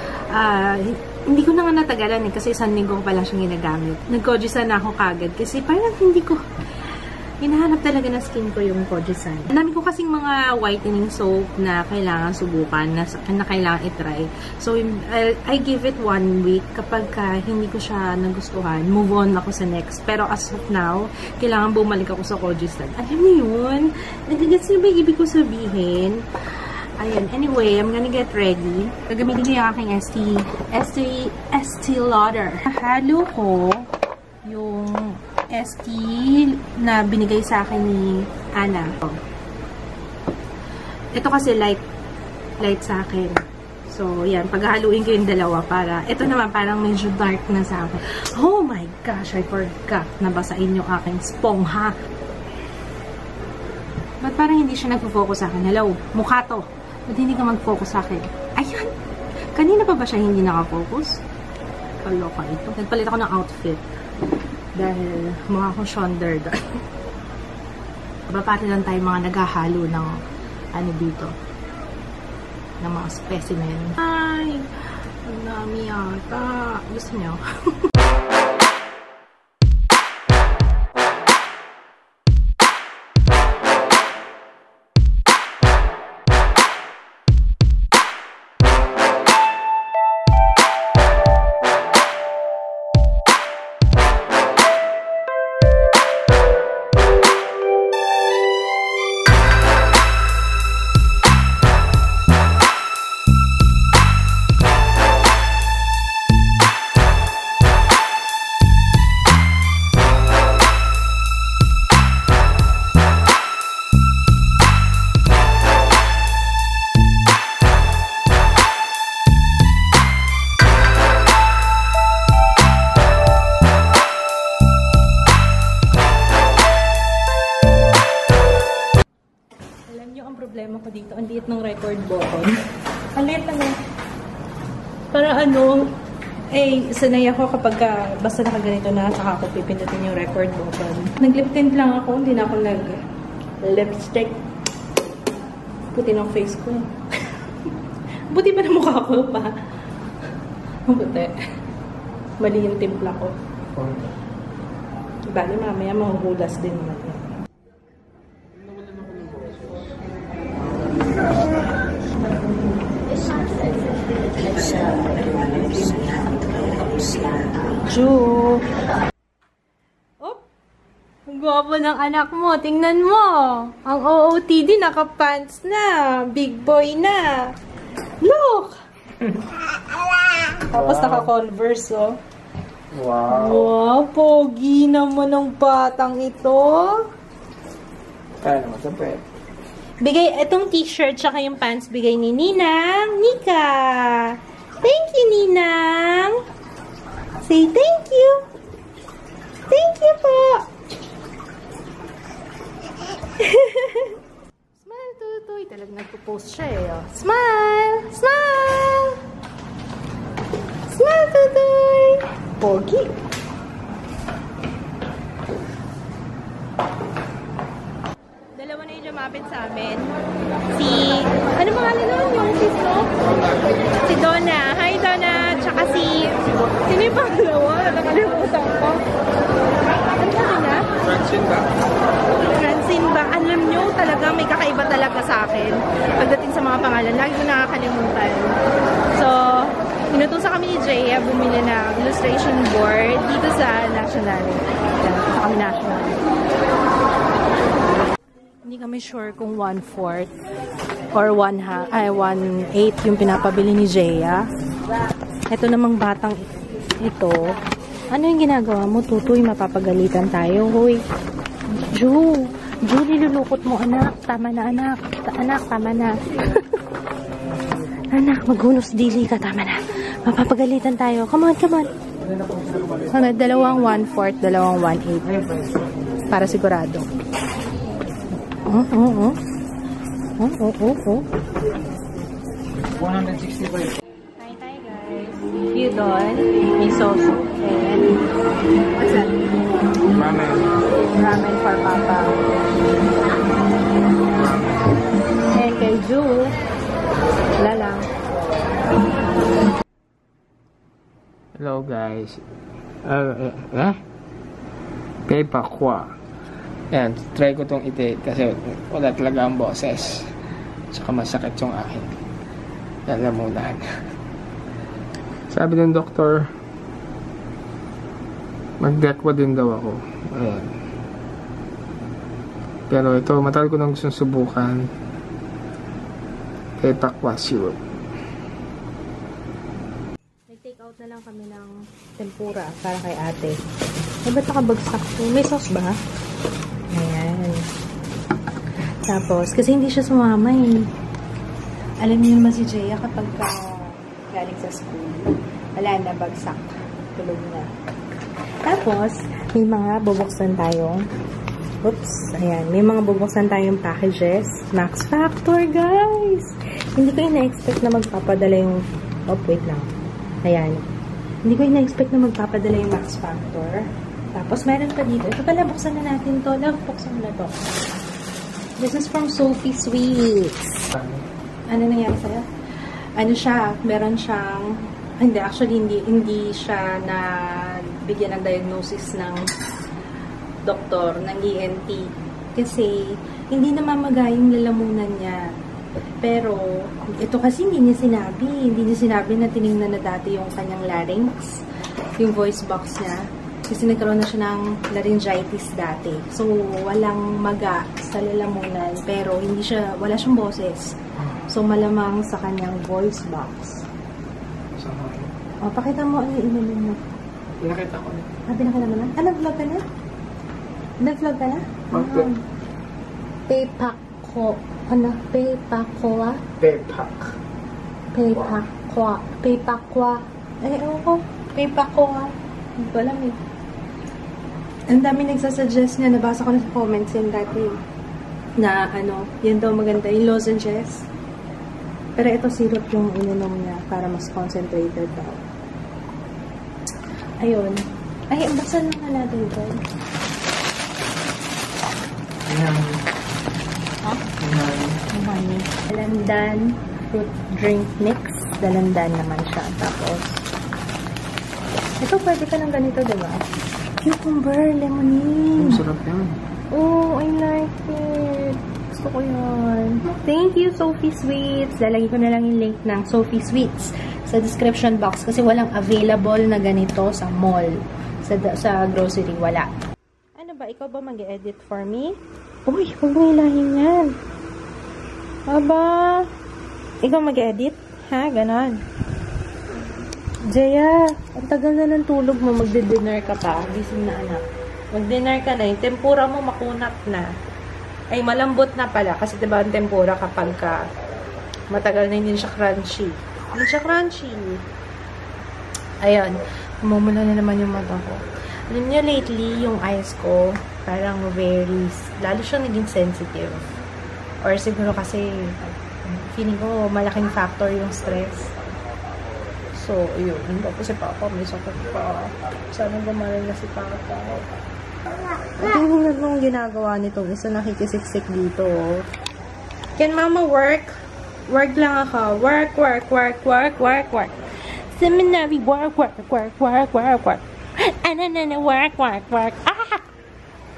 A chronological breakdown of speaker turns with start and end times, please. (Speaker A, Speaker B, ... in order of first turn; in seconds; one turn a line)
Speaker A: 0.3-6.4
Speaker A: 7.4-33.9
Speaker A: 34.5-39.2
Speaker A: 41.1-41.9
Speaker A: 42.6-51.9
Speaker A: 54.2-58.9
Speaker A: 59.5-61.2
Speaker A: 62.0-63.8
Speaker A: 64.8-66.6
Speaker A: 68.3-70.2
Speaker A: 70.7-71.3
Speaker A: 72.8-74.7
Speaker A: 75.2-77.9
Speaker A: 129.9-132.5
Speaker A: 133.1-133.8
Speaker A: 135.1-135.9
Speaker A: 136.5-143.0
Speaker A: 143.6-144.4
Speaker A: 145.9-147.8
Speaker A: 148.3-149.5
Speaker A: 150.9-151.3
Speaker A: 152.4-153.3
Speaker B: 153.8-154.1
Speaker A: 155.3-157.3
Speaker B: 158.9-159.3
Speaker A: 164.5-168.7
Speaker A: 171.3-177.5
Speaker A: 178.2-182.2
Speaker B: 180.7-181.3
Speaker B: 182.9-183.7
Speaker A: 183.3-187.0
Speaker B: 188.4-189.2
Speaker A: 190.0-196.4
Speaker A: 197.4-198.5
Speaker A: 199.7-200.7
Speaker A: 203.0-204.2
Speaker A: 204.8-209.2
Speaker A: 210.9-213.1
Speaker A: 218.6-220.1
Speaker A: 220.7-223.1
Speaker A: 224.0-229.0
Speaker A: 230.0-230.8
Speaker A: 232.3-238.6
Speaker A: 239.1-246.2
Speaker A: 248.7-250.3
Speaker A: 251.1-254.4
Speaker A: 255.5-256.4
Speaker A: 257.0-257.5
Speaker A: 258.1-261.0
Speaker A: 261.7-266.8
Speaker A: 268.0-271.9
Speaker A: 273.1-275.4
Speaker A: 276.3-277.1
Speaker A: 278.5-279.4
Speaker A: 280.4-281.3
Speaker B: 283.0-283.8
Speaker A: 284.4-288.2
Speaker A: 288.9-289.5
Speaker B: 290.1-290.8
Speaker A: 291.0-292.4
Speaker A: 295.5-296.5
Speaker A: 297.6-298.1
Speaker B: 301.6-302.4
Speaker B: 303.0-304.0
Speaker B: 305.3-306.1
Speaker B: 306.9-310.2
Speaker B: 310.9-312.1
Speaker B: 313.1-313.8
Speaker B: 315.5-316.4
Speaker B: 318.8-320.7
Speaker B: 322.9-324.9
Speaker B: 326.8-327.8
Speaker A: 330.5-333.6
Speaker A: 334.2-336.0
Speaker A: 336.9-337.7
Speaker A: 339.1-340.9
Speaker A: 342.0-347.7
Speaker A: 348.6-351.1
Speaker A: 351.8-359.9
Speaker A: 360.4-360.8
Speaker A: 361.4-367.7
Speaker A: 368.8-370.9
Speaker B: 370.9-371.3
Speaker A: 371.7-372.5
Speaker A: 373.2-379.4
Speaker A: 380.6-385.4
Speaker A: 386.2-391.6
Speaker A: 392.2-403.9
Speaker B: 404.8-405.3
Speaker A: 405.6-407.2
Speaker B: 407.6-408.3
Speaker A: 408.5-409.8
Speaker A: 411.0-412.4
Speaker B: 411.9-412.3
Speaker A: 413.5-416.4
Speaker B: 416.6-417.4
Speaker A: 418.1-423.4
Speaker B: 418.3-418.6
Speaker A: 424.9-427.8
Speaker A: 428.6-431.1
Speaker A: 432.2-435.4
Speaker A: 437.4-439.8
Speaker B: 442.4-443.0
Speaker B: 444.4-445.0
Speaker A: 445.1-450.4
Speaker A: 452.0-453.4
Speaker A: 454.0-455.8
Speaker B: 455.6-456.4
Speaker A: 456.7-469.7
Speaker A: 470.4-474.2
Speaker A: 475.5-476.3
Speaker A: 477.0-478.8
Speaker A: 480.5-487.3
Speaker A: 488.1-490.8
Speaker A: 491.7-494.6
Speaker A: 496.0-503.6
Speaker A: 504.4-508.5
Speaker A: 509.7-514.6
Speaker A: 515.6-519.0
Speaker A: 520.0-521.0
Speaker A: 521.5-524.4
Speaker A: 524.9-530.0